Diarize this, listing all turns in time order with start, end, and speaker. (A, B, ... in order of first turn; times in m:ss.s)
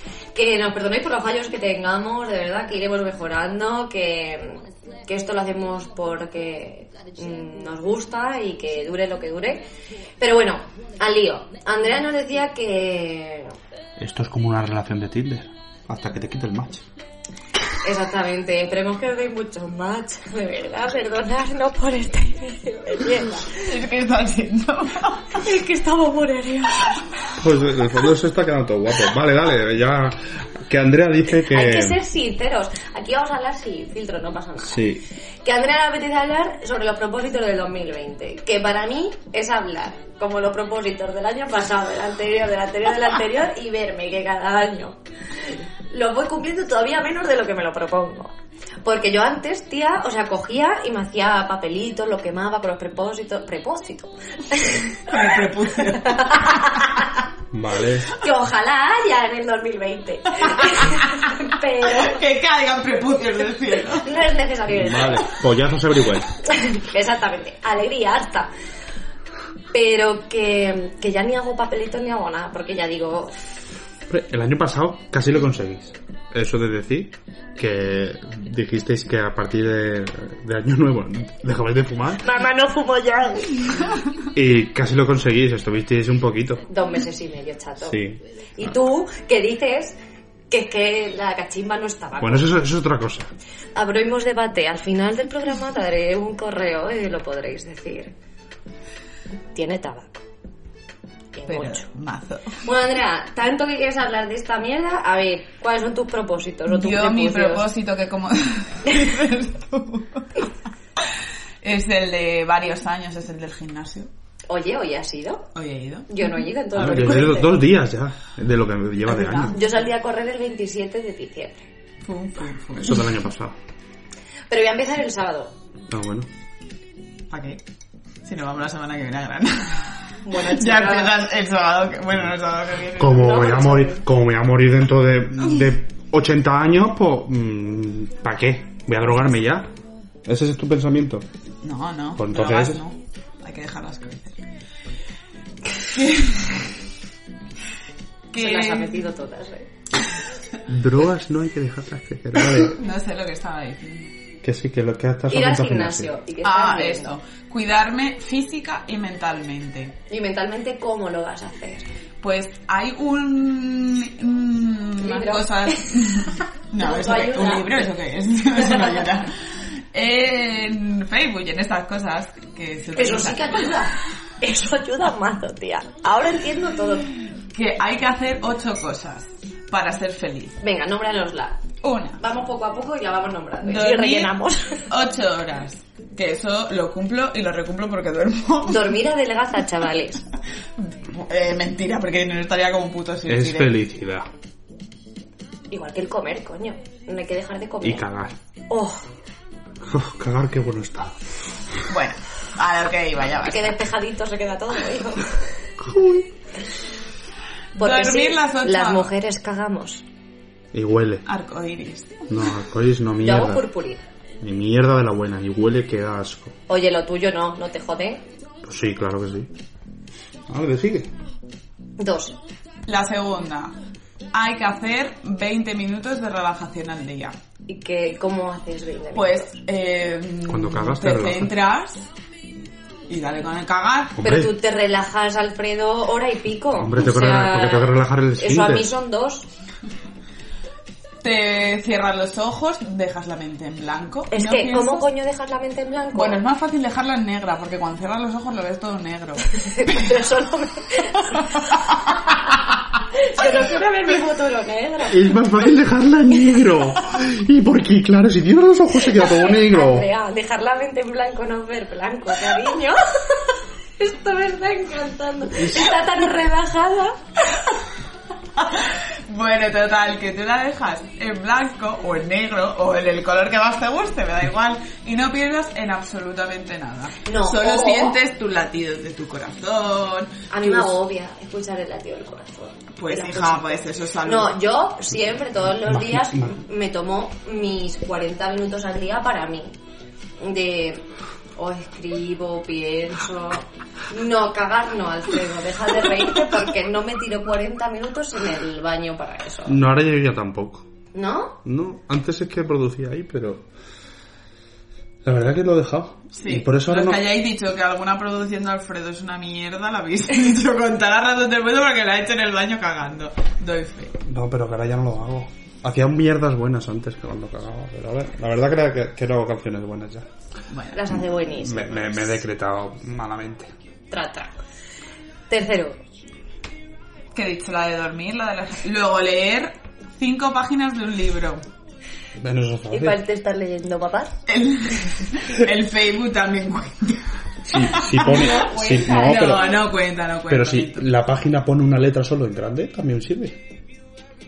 0:00.3-0:09.6 A
0:10.2-0:13.5 A
0:14.0-0:16.8 B
0:17.8-0:23.6 A
0:23.5-0:25.4 C
0:25.3-0:27.1 A
0:27.4-0:32.0 B
0:31.4-0:48.3 A
0:34.6-0:35.0 B
0:48.8-0:55.1 A
0:55.0-0:56.6 C
0:56.0-0:57.1 A
0:57.5-0:58.1 B
0:58.1-1:02.2 A
1:01.8-1:04.1 C
1:04.0-1:05.3 A
1:04.7-1:06.3 B
1:06.4-1:08.5 A
1:09.7-1:13.4 A
1:14.1-1:22.3 B
1:22.2-1:23.8 A
1:24.3-1:26.6 B
1:26.7-1:28.0 A
1:27.8-1:28.2 B
1:28.6-1:30.0 A
1:30.5-1:32.5 A
1:32.2-1:33.3 B
1:33.7-1:38.1 A
1:39.5-1:40.2 A
1:41.3-1:41.9 A
1:41.5-1:42.6 C
1:42.6-1:47.7 A
1:46.7-1:50.4 C
1:51.6-1:54.1 C
1:54.5-1:55.5 A
1:55.5-1:56.1 C
1:56.1-1:57.6 A
1:56.7-1:59.6 B
1:59.2-1:59.6 C
1:59.5-2:01.7 A
2:02.0-2:03.0 C
2:02.8-2:03.6 B
2:04.5-2:05.5 A
2:05.9-2:06.3 B
2:07.3-2:07.6 C
2:08.2-2:13.7 C
2:10.2-2:11.2 A
2:13.0-2:19.7 B
2:13.2-2:14.0 A
2:20.2-2:21.2 B
2:21.6-2:24.4 C
2:22.2-2:22.8 B
2:25.8-2:26.7 C
2:28.3-2:29.0 C
2:28.3-2:29.7 A
2:30.7-2:32.8 B
2:32.6-2:34.1 C
2:34.4-2:36.1 B
2:35.3-2:37.1 A
2:36.4-2:40.0 C
2:40.1-2:41.9 A
2:42.2-2:49.4 C
2:45.0-2:47.9 A
2:48.6-2:49.1 A
2:49.9-2:53.8 C
2:52.9-2:57.1 A
2:57.5-3:00.6 C
3:00.6-3:01.6 A
3:01.8-3:02.2 C
3:02.2-3:04.8 A
3:03.6-3:04.3 C
3:04.9-3:09.0 C
3:08.7-3:10.2 A
3:10.8-3:13.7 C
3:13.2-3:14.3 B
3:15.7-3:18.0 A
3:17.8-3:18.4 B
3:18.7-3:19.0 A
3:19.8-3:21.8 B
3:21.9-3:23.8 C
3:23.4-3:25.5 A
3:25.8-3:26.3 B
3:27.8-3:29.1 C
3:27.8-3:30.0 A
3:30.7-3:31.2 B
3:31.2-3:32.3 C
3:32.3-3:33.7 B
3:33.2-3:34.0 A
3:34.4-3:36.6 B
3:36.7-3:38.2 A
3:38.6-3:39.5 B
3:40.5-3:41.1 B
3:42.0-3:42.4 A
3:42.8-3:43.8 C
3:44.3-3:47.4 C
3:47.7-3:49.5 A
3:49.1-3:52.0 C
3:50.4-3:51.5 B
3:53.1-3:54.2 C
3:54.2-3:54.5 B
3:54.2-3:59.5 A
3:56.8-3:58.9 B
4:01.2-4:05.1 C
4:04.3-4:06.4 A
4:06.1-4:09.5 C
4:09.5-4:11.6 A
4:12.3-4:12.6 A
4:13.1-4:15.4 A
4:15.1-4:20.1 B
4:19.0-4:27.7 A
4:25.6-4:25.9 B
4:28.6-4:40.9 C
4:37.2-4:38.2 A
4:40.5-4:49.7 A
4:43.0-4:44.6 C
4:45.8-4:46.6 B
4:50.4-4:59.8 A
4:59.6-5:00.9 B
5:01.1-5:01.6 A
5:01.6-5:03.7 B
5:05.2-5:07.2 B
5:06.3-5:14.2 C
5:14.2-5:20.3 B
5:20.7-5:21.1 C
5:20.9-5:22.4 A
5:21.5-5:23.7 B
5:24.1-5:24.5 A
5:25.5-5:26.0 A
5:27.3-5:31.6 C
5:32.4-5:33.2 B
5:32.9-5:34.4 A
5:34.5-5:41.1 C
5:37.6-5:39.8 B
5:38.1-5:39.8 A
5:40.5-5:43.6 B